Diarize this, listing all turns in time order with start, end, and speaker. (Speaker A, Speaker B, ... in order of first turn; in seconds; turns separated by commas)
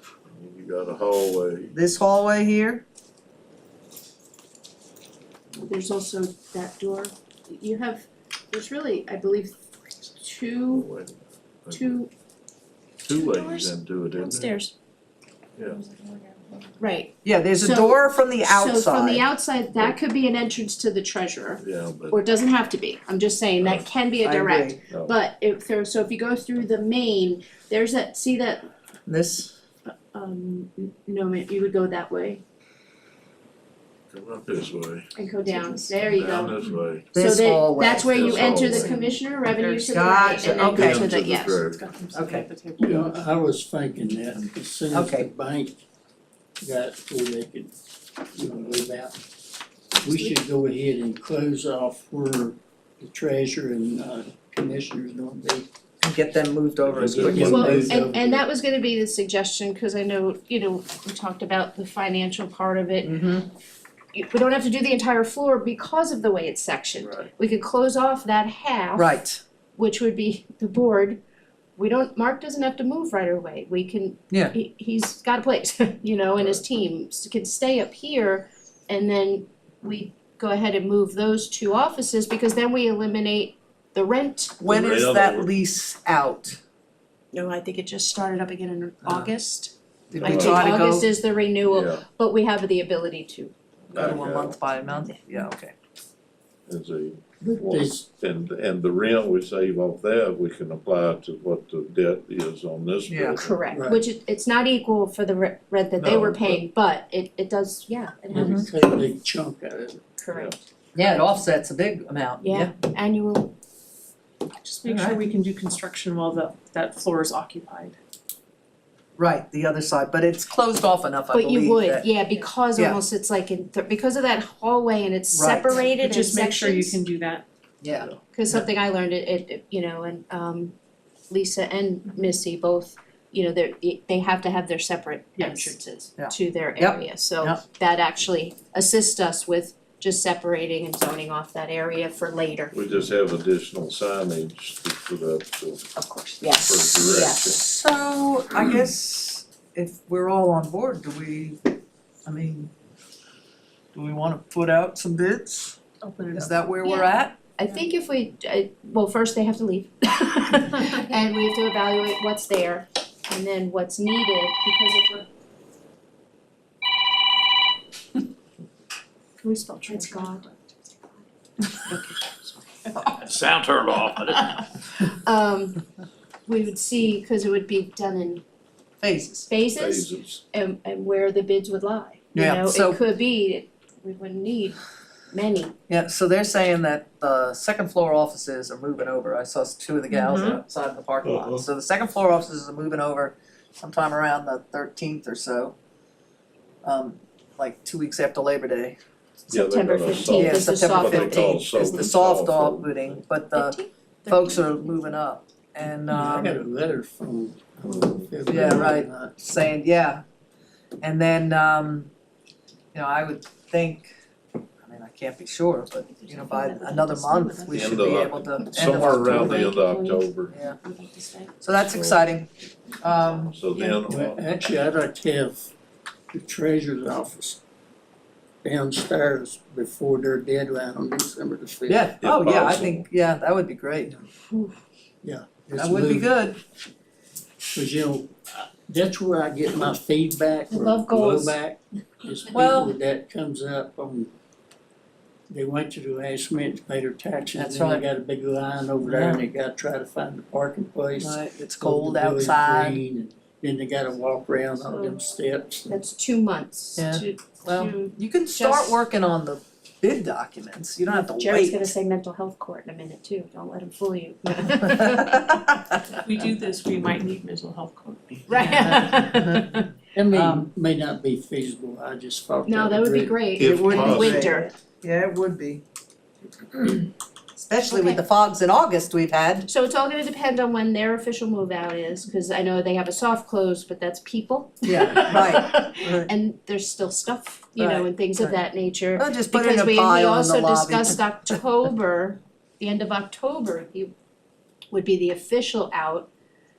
Speaker A: 0.3-1.8, Speaker B: 1.7-2.8, Speaker C: 5.6-10.9, Speaker A: 10.7-12.0, Speaker C: 11.7-12.1, Speaker A: 13.1-14.6, Speaker C: 13.1-14.7, Speaker A: 15.6-15.9, Speaker D: 15.9-16.2, Speaker C: 16.8-28.7, Speaker B: 17.2-19.2, Speaker A: 21.6-22.2, Speaker A: 23.6-23.9, Speaker B: 24.2-24.8, Speaker B: 29.1-29.5, Speaker C: 29.9-32.4, Speaker A: 34.1-35.1, Speaker C: 35.1-41.6, Speaker D: 35.5-36.0, Speaker A: 36.0-37.1, Speaker B: 37.1-38.7, Speaker A: 38.0-39.1, Speaker D: 39.5-40.8, Speaker B: 39.9-41.0, Speaker A: 40.7-41.8, Speaker D: 41.6-43.2, Speaker B: 42.1-42.5, Speaker E: 42.8-45.8, Speaker B: 44.9-45.3, Speaker E: 46.6-49.2, Speaker C: 49.9-50.4, Speaker E: 50.0-55.7, Speaker B: 56.0-57.7, Speaker A: 56.9-58.0, Speaker E: 57.0-58.4, Speaker C: 57.4-63.3, Speaker B: 63.0-63.5, Speaker C: 64.1-69.2, Speaker B: 69.0-69.4, Speaker C: 69.8-71.2, Speaker C: 71.8-84.6, Speaker B: 84.6-86.6, Speaker A: 84.6-85.5, Speaker C: 87.3-93.5, Speaker A: 90.1-90.7, Speaker B: 90.1-91.1, Speaker A: 91.7-92.0, Speaker A: 93.9-95.1, Speaker B: 93.9-95.7, Speaker A: 96.7-103.6, Speaker E: 97.4-98.1, Speaker B: 103.1-103.4, Speaker C: 103.4-108.7, Speaker E: 103.7-104.0, Speaker A: 106.0-106.6, Speaker E: 108.3-110.0, Speaker B: 108.3-108.7, Speaker C: 110.2-110.6, Speaker B: 111.0-112.7, Speaker C: 112.4-113.5, Speaker D: 114.5-118.0, Speaker B: 114.9-115.2, Speaker B: 119.2-122.1, Speaker C: 121.3-127.0, Speaker B: 125.3-125.8, Speaker D: 125.9-127.5, Speaker B: 127.8-128.7, Speaker C: 128.3-130.7, Speaker C: 131.3-142.7, Speaker D: 135.4-135.7, Speaker B: 136.2-137.6, Speaker A: 142.7-145.9, Speaker C: 146.0-147.4, Speaker A: 146.6-147.6, Speaker B: 147.4-151.6, Speaker B: 152.2-152.7, Speaker B: 153.9-155.8, Speaker D: 156.0-156.4, Speaker B: 156.3-157.4, Speaker C: 156.8-165.3, Speaker D: 169.4-170.4, Speaker C: 169.8-171.1, Speaker D: 171.7-172.4, Speaker D: 172.9-173.7, Speaker A: 173.2-174.4, Speaker C: 175.2-175.8, Speaker C: 176.5-178.4, Speaker B: 179.0-179.5, Speaker C: 179.5-184.8, Speaker A: 179.7-180.4, Speaker B: 182.3-183.0, Speaker C: 185.3-185.7, Speaker B: 185.9-195.8, Speaker A: 191.2-191.6, Speaker B: 196.8-199.0, Speaker C: 199.5-202.1, Speaker A: 199.5-203.2, Speaker B: 200.2-206.6, Speaker C: 203.5-205.2, Speaker E: 206.1-209.4, Speaker A: 207.8-208.7, Speaker B: 208.5-210.2, Speaker B: 211.0-212.1, Speaker B: 212.9-214.1, Speaker B: 214.8-219.8, Speaker C: 216.2-217.8, Speaker A: 217.7-220.5, Speaker C: 219.1-221.6, Speaker B: 220.5-220.8, Speaker B: 221.6-223.6, Speaker A: 221.8-222.2, Speaker A: 223.4-224.7, Speaker E: 224.1-225.7, Speaker E: 226.3-227.6, Speaker E: 228.6-232.1, Speaker B: 231.9-234.2, Speaker A: 232.2-233.1, Speaker E: 235.2-236.3, Speaker B: 235.7-236.6, Speaker E: 237.7-244.3, Speaker C: 240.7-241.6, Speaker B: 242.5-242.9, Speaker E: 245.5-256.0, Speaker B: 247.6-248.0, Speaker B: 249.0-249.4, Speaker B: 251.2-253.0, Speaker C: 254.9-255.2, Speaker C: 255.9-259.1, Speaker B: 257.0-261.9, Speaker C: 261.1-265.6, Speaker B: 264.9-265.6, Speaker D: 266.2-269.3, Speaker C: 268.5-269.9, Speaker E: 270.1-273.4, Speaker B: 270.3-270.7, Speaker C: 272.7-274.7, Speaker A: 273.6-274.7, Speaker B: 273.6-275.8, Speaker B: 277.6-279.7, Speaker C: 277.9-278.2, Speaker C: 279.7-294.1, Speaker B: 284.9-286.3, Speaker B: 287.8-288.6, Speaker B: 289.2-291.2, Speaker C: 294.9-296.3